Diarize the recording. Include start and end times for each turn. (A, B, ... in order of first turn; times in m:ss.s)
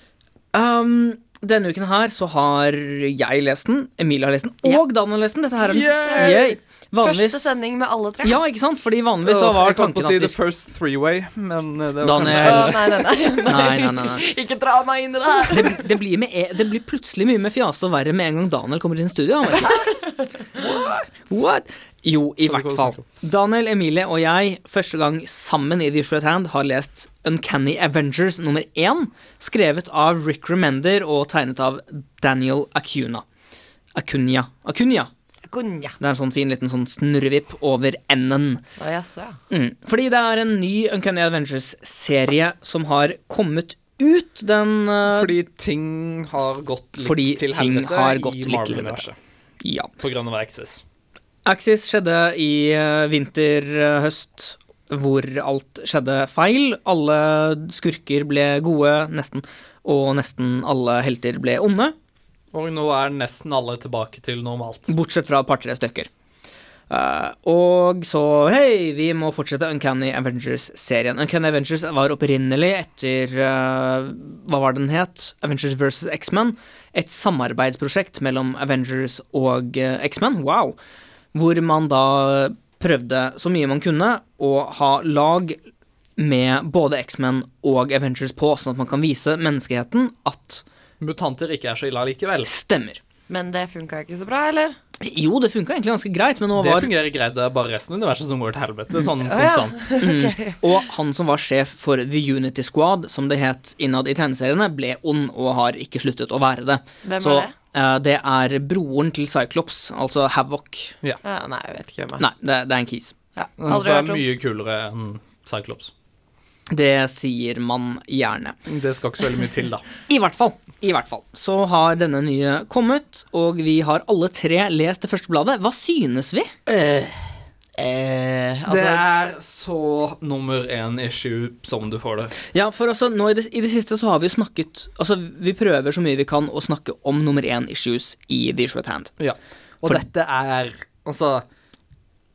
0:00.5-0:07.5 A
0:05.6-0:06.6 B
0:07.0-0:08.4 C
0:08.2-0:10.4 A
0:09.2-0:13.0 B
0:12.0-0:12.8 A
0:12.2-0:15.9 C
0:13.4-0:14.2 A
0:15.5-0:19.9 A
0:19.6-0:20.3 C
0:20.6-0:21.3 B
0:21.3-0:33.2 A
0:22.4-0:23.0 B
0:33.9-0:35.1 A
0:35.5-0:36.0 C
0:36.0-0:38.6 A
0:38.8-0:39.4 C
0:39.5-0:45.3 A
0:45.1-0:49.2 B
0:47.0-0:49.1 A
0:49.6-0:49.9 A
0:50.0-0:50.8 B
0:51.4-1:01.9 A
1:02.5-1:04.9 B
1:04.9-1:06.1 A
1:06.9-1:20.8 A
1:21.3-1:25.6 A
1:26.2-1:30.6 A
1:31.0-1:32.5 B
1:32.4-1:33.0 A
1:33.3-1:34.8 C
1:35.0-1:36.9 A
1:36.5-1:39.9 B
1:39.1-1:40.8 C
1:40.0-1:50.9 A
1:47.0-1:47.5 C
1:51.2-1:52.2 C
1:52.2-1:53.1 A
1:53.4-1:54.2 C
1:53.6-1:55.9 B
1:56.7-1:58.6 A
1:58.7-1:59.8 B
2:00.1-2:06.5 A
2:06.7-2:07.2 B
2:07.8-2:09.0 C
2:08.6-2:12.3 B
2:12.4-2:19.1 A
2:19.2-2:21.4 B